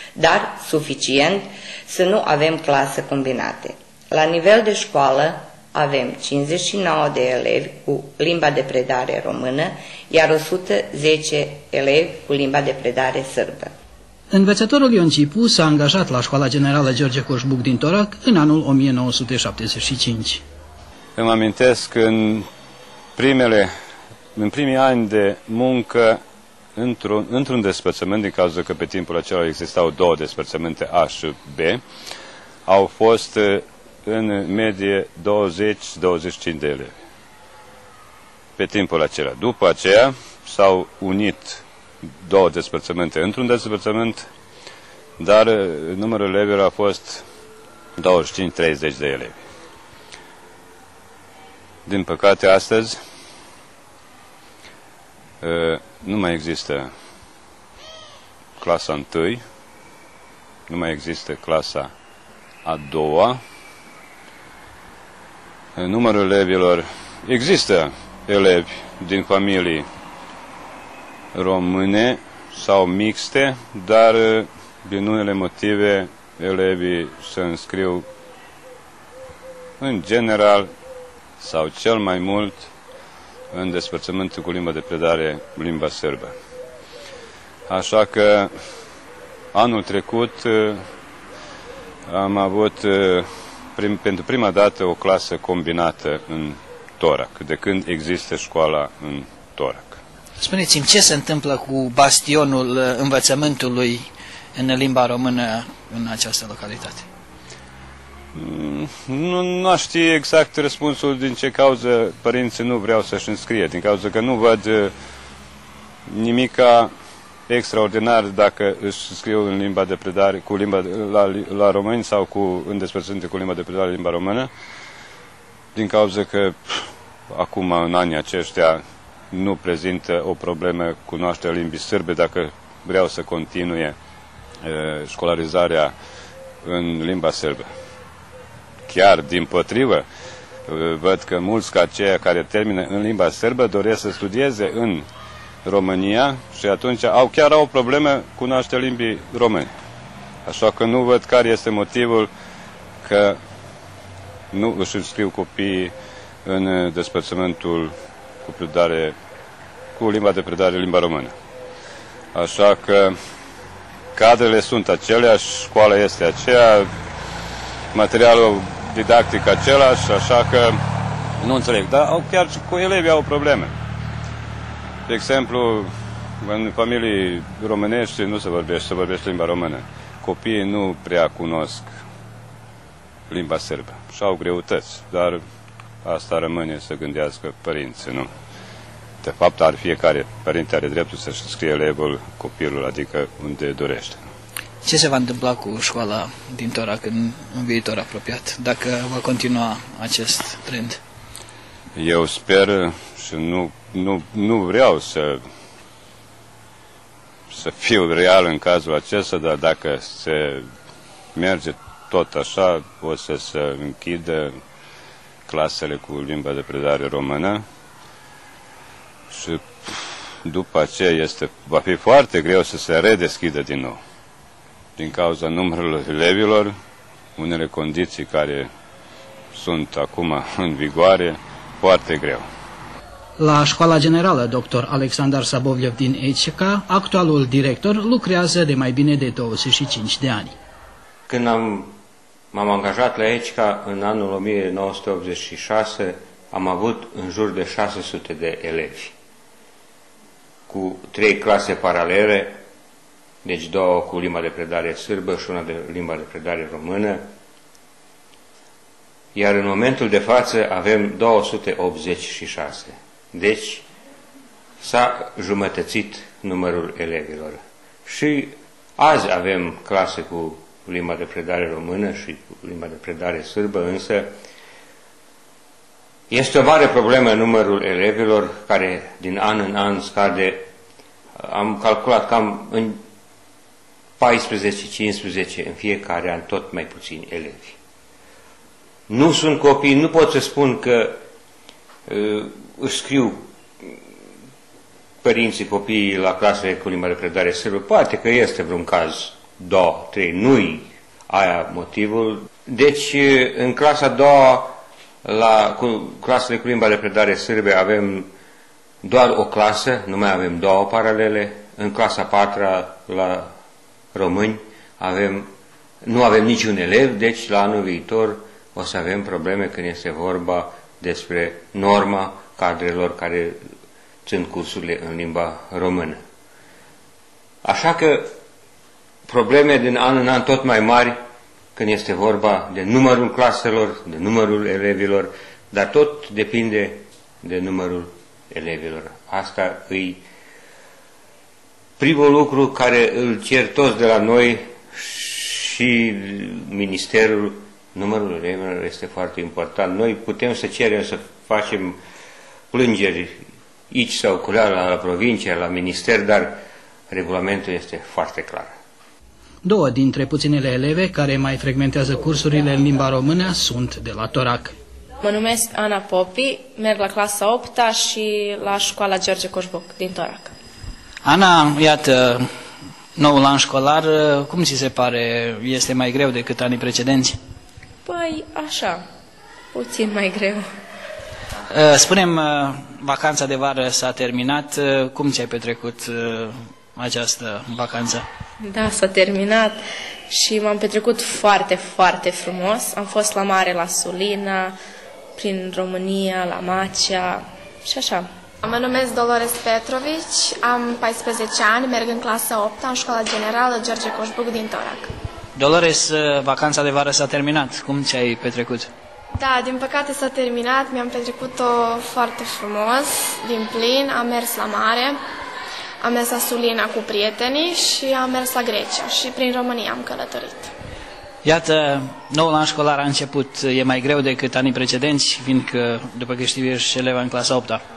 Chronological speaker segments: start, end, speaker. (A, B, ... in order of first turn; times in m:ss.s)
0:00.2-0:13.7 A
0:14.3-0:20.4 B
0:21.2-0:22.5 C
0:23.2-0:23.7 C
0:24.4-0:26.2 C
0:26.8-0:31.8 C
0:32.7-0:36.9 C
0:38.6-0:41.6 C
0:42.2-0:44.3 C
0:45.2-0:47.2 C
0:48.0-0:49.4 C
0:51.9-0:53.0 C
0:55.4-0:56.9 C
0:58.6-0:59.4 C
1:00.7-1:01.9 C
1:02.7-1:03.4 C
1:05.8-1:09.9 C
1:11.4-1:18.0 C
1:19.8-1:20.7 C
1:21.4-1:22.7 C
1:23.5-1:26.3 C
1:27.7-1:28.5 C
1:29.5-1:30.8 C
1:32.1-1:40.0 C
1:48.4-1:54.9 C
1:56.1-1:56.9 C
1:57.5-2:04.5 C
2:05.8-2:06.6 C
2:07.3-2:14.0 C
2:14.6-2:15.9 C
2:16.6-2:17.7 C
2:18.9-2:20.0 C
2:20.7-2:25.1 C
2:25.7-2:29.7 C
2:30.5-2:32.3 C
2:33.0-2:33.4 C
2:34.5-2:35.9 C
2:36.5-2:37.9 C
2:38.4-2:39.2 C
2:40.0-2:41.3 C
2:42.4-2:43.2 C
2:44.2-2:46.9 C
2:48.0-2:50.8 C
2:51.4-2:53.7 C
2:55.1-2:55.9 C
2:56.4-3:01.9 C
3:03.3-3:05.4 C
3:06.0-3:08.3 C
3:09.2-3:14.2 C
3:14.9-3:21.0 B
3:22.0-3:25.4 C
3:27.5-3:30.7 C
3:31.4-3:34.6 C
3:35.5-3:37.6 C
3:39.3-3:39.7 C
3:40.5-3:44.0 C
3:45.0-3:46.8 C
3:47.4-3:48.7 C
3:49.5-3:52.4 C
3:53.4-4:00.6 B
4:01.3-4:01.9 D
4:02.5-4:09.1 D
4:10.7-4:12.6 D
4:13.4-4:17.3 D
4:19.4-4:23.8 D
4:24.8-4:34.3 D
4:36.3-4:40.6 D
4:41.4-4:43.0 D
4:44.2-4:47.8 D
4:49.1-4:51.2 D
4:52.1-4:53.5 D
4:55.2-5:08.3 D
5:09.0-5:13.5 D
5:14.1-5:15.5 D
5:16.0-5:23.6 D
5:24.3-5:26.2 D
5:27.6-5:28.3 D
5:29.3-5:31.2 D
5:31.8-5:40.2 D
5:42.0-5:52.0 D
5:52.7-5:58.7 D
5:59.6-6:04.8 B
6:05.2-6:10.5 E
6:11.3-6:12.2 B
6:13.2-6:17.3 B
6:18.0-6:19.0 E
6:19.7-6:20.7 E
6:21.9-6:22.3 B
6:23.0-6:26.0 B
6:27.0-6:28.2 B
6:28.6-6:34.8 E
6:35.4-6:38.3 E
6:38.6-6:45.1 F
6:45.6-6:48.9 B
6:49.4-6:55.2 F
6:56.0-7:00.7 F
7:01.5-7:07.8 B